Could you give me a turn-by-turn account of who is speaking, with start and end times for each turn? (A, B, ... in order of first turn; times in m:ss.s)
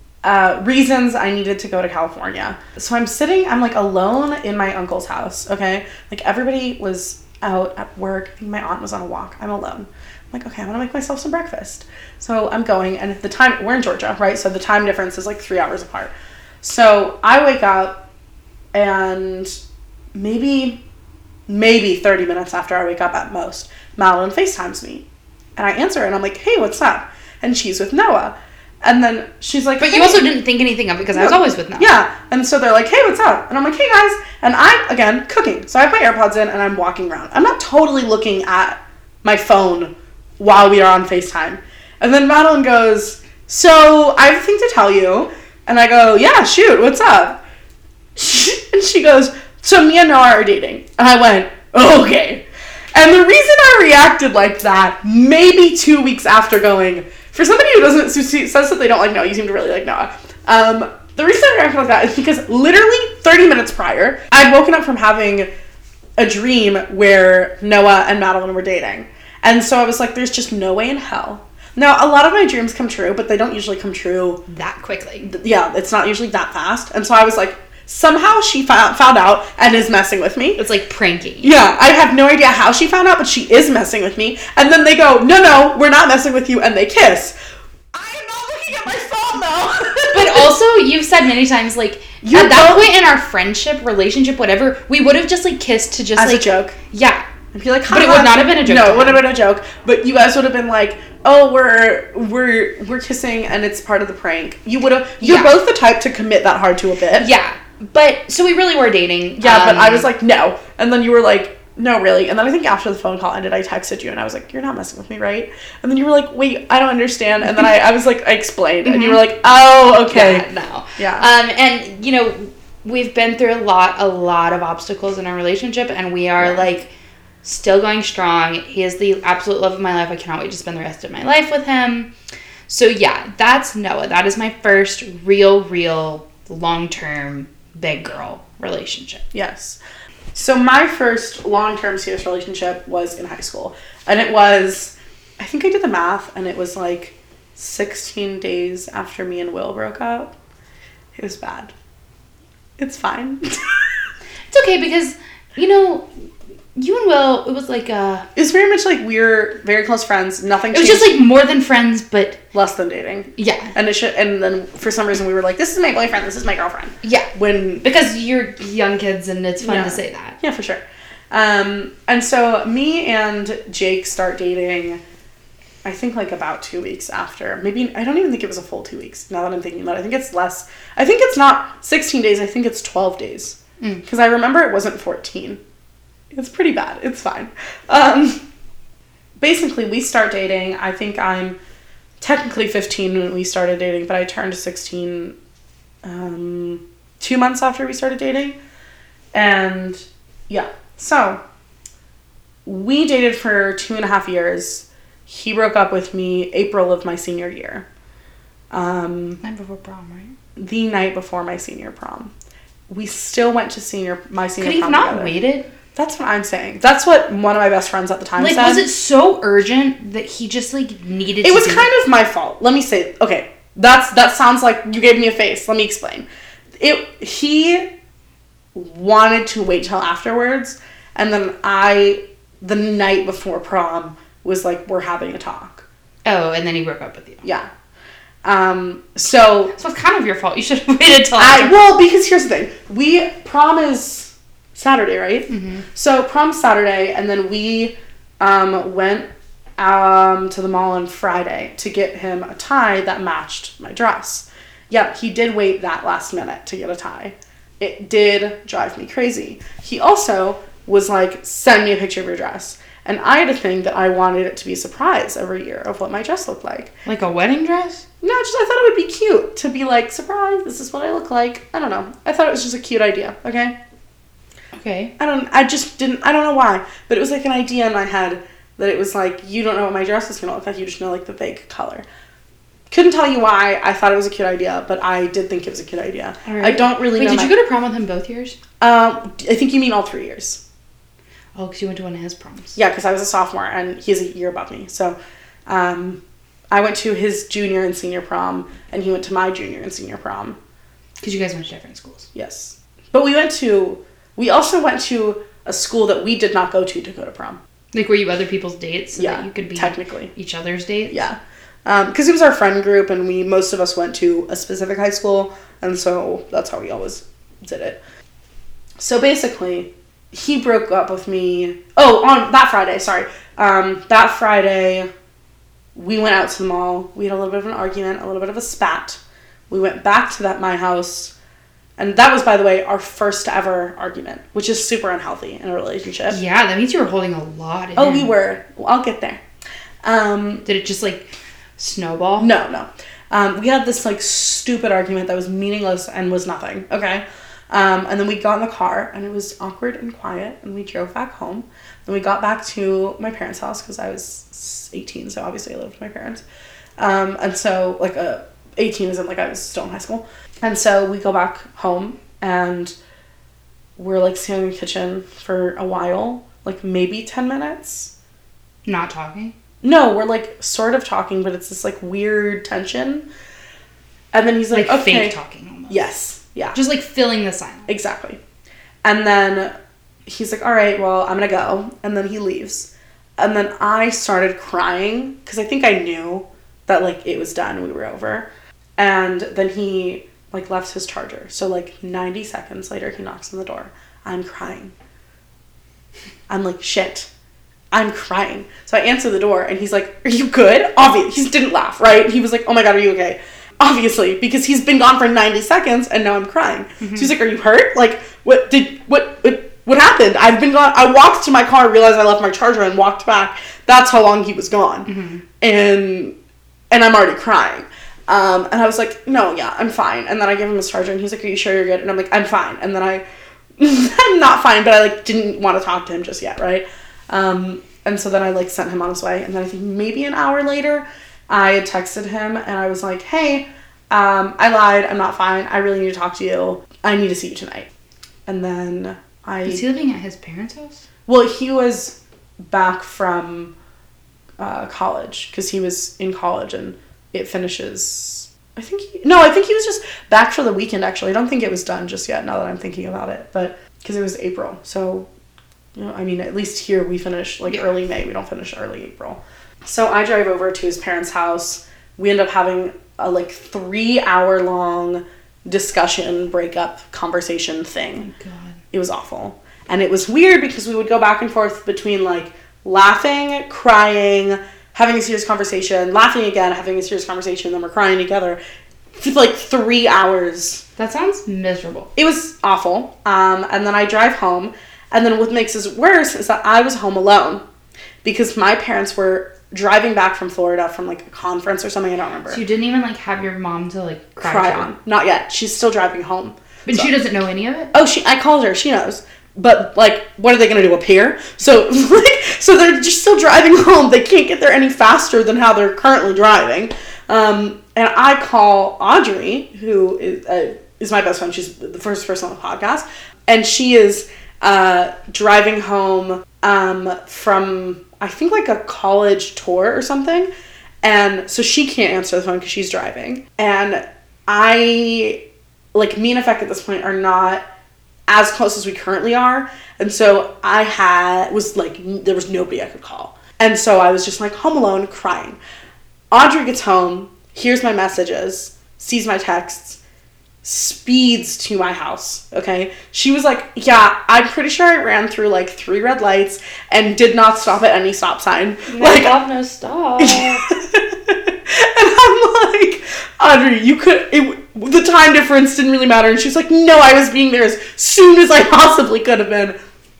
0:00.2-0:18.0 A
0:18.7-0:19.6 A
0:20.1-0:20.8 A
0:21.5-0:25.0 A
0:25.6-0:30.3 A
0:29.8-0:31.9 B
0:31.1-0:47.4 A
0:48.2-1:05.5 A
1:06.2-1:14.4 A
1:14.5-1:15.3 B
1:15.2-1:20.6 A
1:20.6-1:21.6 B
1:21.4-1:27.3 A
1:27.9-1:30.5 A
1:30.1-1:37.2 B
1:32.2-1:32.9 A
1:36.2-1:36.8 A
1:37.5-1:47.3 A
1:37.9-1:39.2 B
1:45.2-1:45.6 B
1:47.2-1:50.1 B
1:49.4-2:00.4 A
1:58.8-1:59.2 B
2:00.1-2:06.9 B
2:01.0-2:01.3 A
2:07.4-2:12.1 B
2:12.7-2:19.2 B
2:19.3-2:19.8 A
2:20.3-2:30.3 A
2:31.2-2:31.7 A
2:32.8-2:33.8 A
2:34.5-2:36.1 B
2:36.7-2:38.2 B
2:38.3-2:41.1 A
2:40.7-2:42.4 B
2:42.5-2:47.8 A
2:43.4-2:43.7 B
2:47.0-2:47.3 B
2:47.8-2:50.4 B
2:49.6-2:55.0 A
2:55.8-3:05.6 A
3:06.3-3:08.4 A
3:09.4-3:11.6 A
3:12.2-3:15.4 A
3:16.0-3:18.6 A
3:19.3-3:21.4 A
3:22.6-3:27.8 A
3:28.7-3:29.4 A
3:29.4-3:30.3 B
3:30.6-3:32.3 A
3:32.9-3:35.3 A
3:34.6-3:35.7 B
3:35.9-3:38.8 A
3:38.4-3:41.9 B
3:41.4-3:46.2 A
3:46.8-3:47.9 A
3:48.7-3:55.8 A
3:56.2-3:57.4 B
3:57.4-3:57.7 A
3:58.4-3:59.8 A
3:59.8-4:01.8 B
4:01.4-4:26.9 A
4:05.5-4:05.8 B
4:27.0-4:28.0 B
4:28.2-4:33.7 A
4:34.7-4:35.1 B
4:35.2-4:42.0 A
4:42.9-4:47.5 A
4:46.5-4:48.6 B
4:48.8-4:50.6 A
4:51.5-4:52.7 B
4:52.7-4:55.2 A
4:55.7-4:56.2 A
4:56.7-5:00.6 A
5:01.2-5:02.3 B
5:02.3-5:07.6 A
5:07.9-5:11.2 B
5:09.2-5:10.3 A
5:11.1-5:18.0 A
5:19.0-5:25.1 A
5:25.9-5:31.3 A
5:32.0-5:36.4 A
5:36.3-5:38.3 B
5:38.0-5:39.4 A
5:40.0-5:40.6 A
5:40.6-5:42.5 B
5:42.4-5:56.4 A
5:57.0-6:02.9 A
6:04.0-6:08.1 A
6:08.8-6:09.5 B
6:09.8-6:13.3 A
6:14.3-6:15.3 A
6:14.7-6:16.1 B
6:15.9-6:16.8 A
6:16.7-6:17.9 B
6:17.9-6:18.4 A
6:19.0-6:19.7 A
6:20.2-6:34.9 A
6:36.5-6:37.3 A
6:37.9-6:56.4 A
6:47.0-6:47.3 B
6:55.0-6:55.4 B
6:56.9-7:03.2 A
7:03.8-7:17.9 A
7:18.4-7:19.8 A
7:19.6-7:21.0 B
7:21.3-7:23.7 A
7:24.6-7:35.3 A
7:35.9-7:48.3 A
7:48.2-7:48.8 B
7:48.9-7:58.6 A
7:59.2-8:00.8 A
8:01.0-8:02.1 B
8:02.2-8:07.6 A
8:08.2-8:12.6 A
8:12.5-8:14.9 B
8:14.4-8:17.1 A
8:16.9-8:17.9 B
8:17.9-8:40.5 A
8:41.0-8:45.4 A
8:45.9-8:47.6 A
8:48.3-8:55.6 A
8:56.3-9:00.0 A
9:00.6-9:09.4 A
9:08.9-9:10.6 B
9:10.2-9:19.8 A